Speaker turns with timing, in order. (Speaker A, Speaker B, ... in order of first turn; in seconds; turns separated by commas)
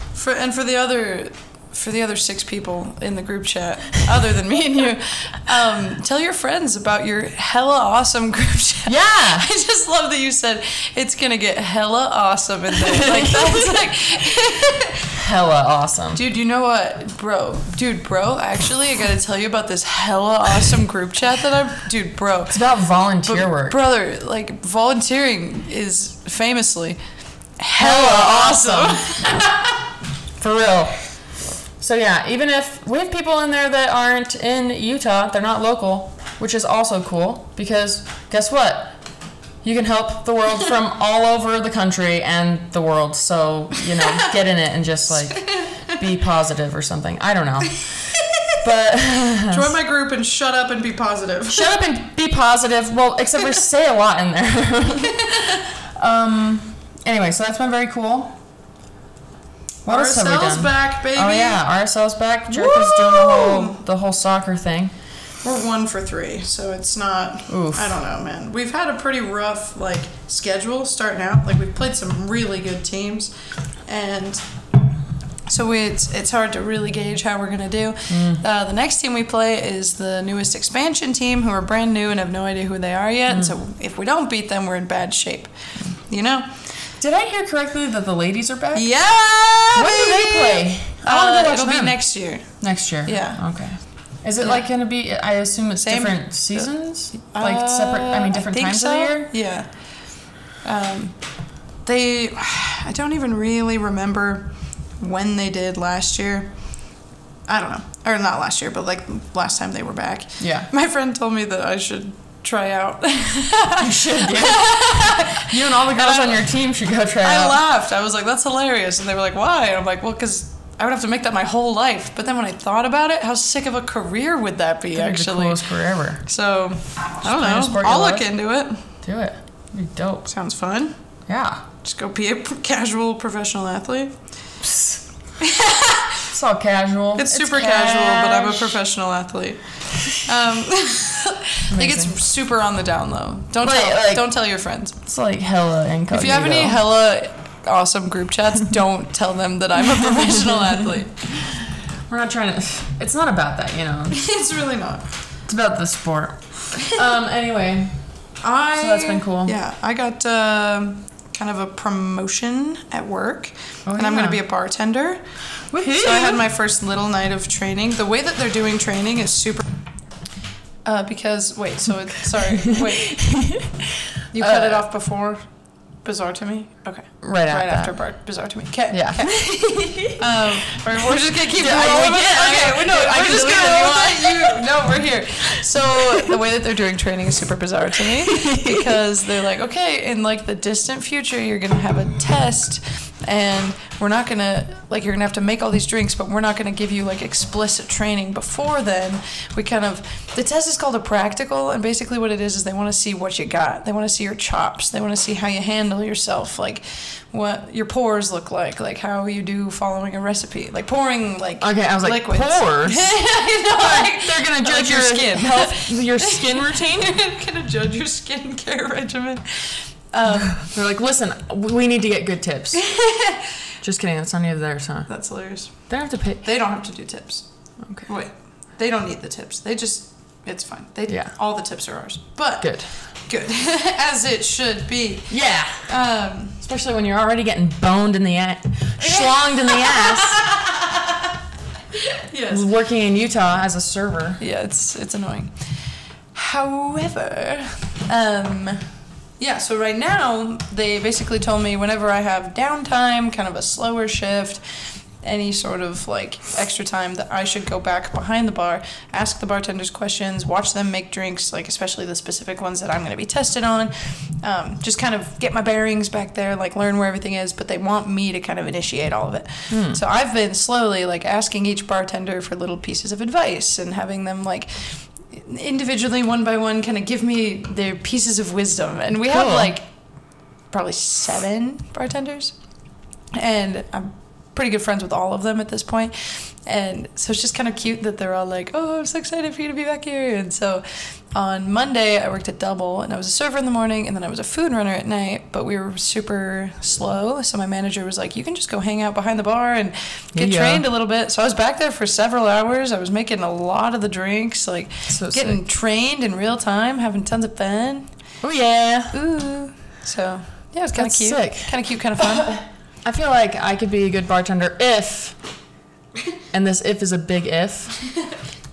Speaker A: 0.1-15.2, Speaker B: 8.9-9.5, Speaker B: 12.9-13.8, Speaker B: 15.2-16.2, Speaker A: 16.1-22.6, Speaker B: 22.5-23.8, Speaker A: 23.2-27.0, Speaker A: 27.6-29.4, Speaker B: 27.8-29.2, Speaker B: 30.4-30.9, Speaker B: 31.8-39.0, Speaker B: 39.6-49.7, Speaker A: 45.4-45.9, Speaker A: 49.5-51.8, Speaker B: 51.5-58.4, Speaker A: 59.8-61.6, Speaker B: 59.9-64.9, Speaker A: 62.5-63.8, Speaker A: 65.4-73.3, Speaker B: 67.5-68.0, Speaker A: 73.9-74.4, Speaker A: 75.5-86.7, Speaker B: 78.1-78.4, Speaker B: 83.3-83.5, Speaker B: 87.0-88.9, Speaker A: 88.7-93.4, Speaker B: 89.7-92.0, Speaker B: 92.6-99.3, Speaker A: 95.8-99.7, Speaker A: 100.6-101.2, Speaker A: 101.8-106.5, Speaker A: 107.5-116.5, Speaker B: 110.4-110.7, Speaker B: 113.8-117.6, Speaker A: 117.2-125.6, Speaker B: 124.9-126.2, Speaker A: 126.2-128.9, Speaker B: 127.2-128.3, Speaker B: 129.0-130.3, Speaker A: 130.3-130.9, Speaker B: 131.3-131.7, Speaker A: 131.8-134.2, Speaker B: 134.6-135.0, Speaker A: 135.4-136.3, Speaker B: 136.3-138.8, Speaker A: 137.2-145.0, Speaker B: 141.7-142.1, Speaker B: 143.6-144.3, Speaker B: 145.0-146.8, Speaker A: 146.1-151.2, Speaker B: 150.1-150.6, Speaker B: 151.4-154.2, Speaker A: 154.1-155.1, Speaker B: 155.5-158.0, Speaker A: 158.4-165.2, Speaker B: 158.8-159.6, Speaker B: 163.9-164.4, Speaker B: 165.7-166.4, Speaker A: 165.8-169.7, Speaker A: 170.8-173.2, Speaker B: 172.7-174.8, Speaker A: 174.3-175.5, Speaker A: 176.0-220.7, Speaker B: 177.2-177.9, Speaker B: 178.9-180.2, Speaker B: 181.6-184.7, Speaker B: 185.9-186.3, Speaker B: 188.3-189.0, Speaker B: 211.6-213.2, Speaker B: 213.8-217.2, Speaker B: 220.5-222.9, Speaker A: 222.8-223.5, Speaker B: 223.8-225.1, Speaker A: 225.1-225.9, Speaker B: 225.9-226.4, Speaker A: 226.4-227.5, Speaker A: 228.0-236.6, Speaker B: 231.1-231.3, Speaker B: 232.6-232.9, Speaker B: 235.3-235.9, Speaker B: 236.6-240.4, Speaker A: 239.0-241.3, Speaker A: 241.9-242.7, Speaker B: 242.5-244.4, Speaker A: 244.4-245.6, Speaker A: 246.3-248.8, Speaker A: 249.4-254.6, Speaker A: 255.2-279.9, Speaker B: 269.7-270.0, Speaker B: 279.3-279.7, Speaker A: 280.7-282.6, Speaker A: 283.3-308.1, Speaker B: 300.3-300.9, Speaker B: 305.1-305.6, Speaker B: 308.4-309.2, Speaker A: 309.1-312.6, Speaker B: 310.9-315.4, Speaker B: 316.5-318.1